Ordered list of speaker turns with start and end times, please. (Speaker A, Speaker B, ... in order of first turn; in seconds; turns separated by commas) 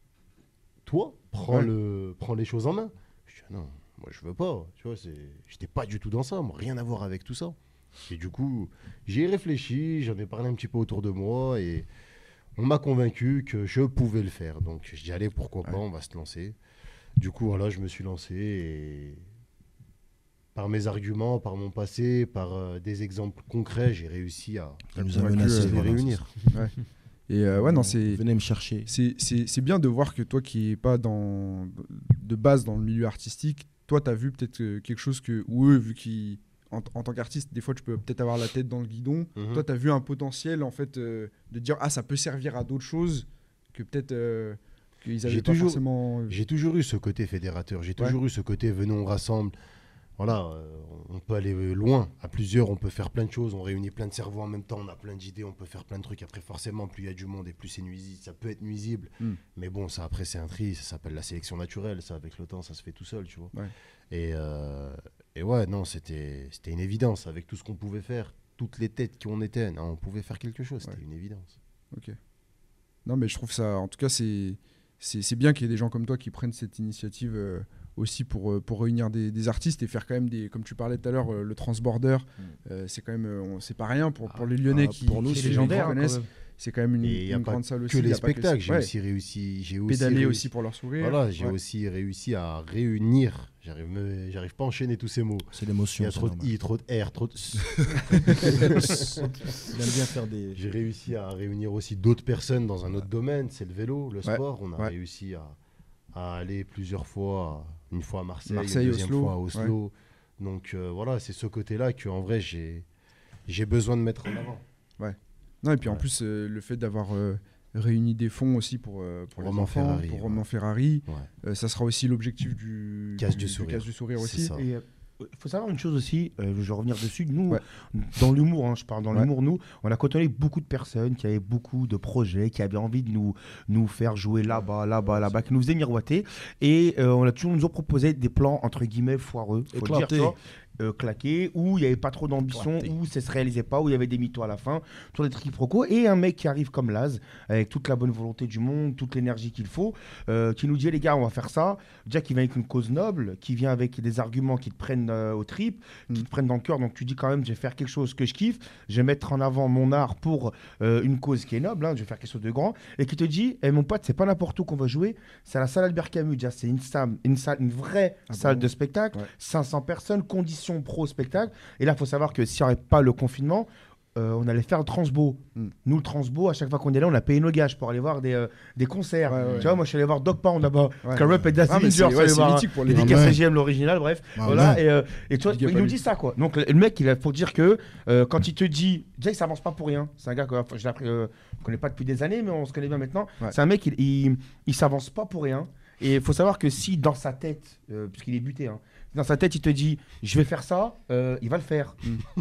Speaker A: 0.8-11.9, Speaker A: 12.6-16.6, Speaker A: 17.2-19.2, Speaker A: 20.6-26.3, Speaker B: 24.9-26.3, Speaker C: 25.1-25.8, Speaker C: 27.3-28.2, Speaker B: 27.6-28.9, Speaker C: 28.9-46.4, Speaker A: 39.4-39.6, Speaker A: 45.2-49.5, Speaker A: 50.2-63.5, Speaker A: 64.1-71.5, Speaker C: 73.1-88.9, Speaker B: 84.7-86.0, Speaker D: 85.3-86.2, Speaker A: 87.0-99.9, Speaker C: 89.9-91.6, Speaker B: 95.5-96.5, Speaker B: 97.7-100.6, Speaker C: 98.3-99.0, Speaker A: 100.5-105.6, Speaker C: 104.2-104.9, Speaker A: 106.1-112.9, Speaker C: 108.5-109.7, Speaker A: 113.5-114.6, Speaker C: 115.0-124.5, Speaker A: 119.4-120.4, Speaker A: 123.2-124.7, Speaker D: 124.5-202.0, Speaker B: 139.7-140.4, Speaker B: 142.5-142.9, Speaker C: 168.3-169.3, Speaker C: 179.3-179.7, Speaker B: 179.4-179.7, Speaker C: 181.0-183.3, Speaker B: 182.9-183.4, Speaker B: 184.4-184.8, Speaker C: 185.5-186.0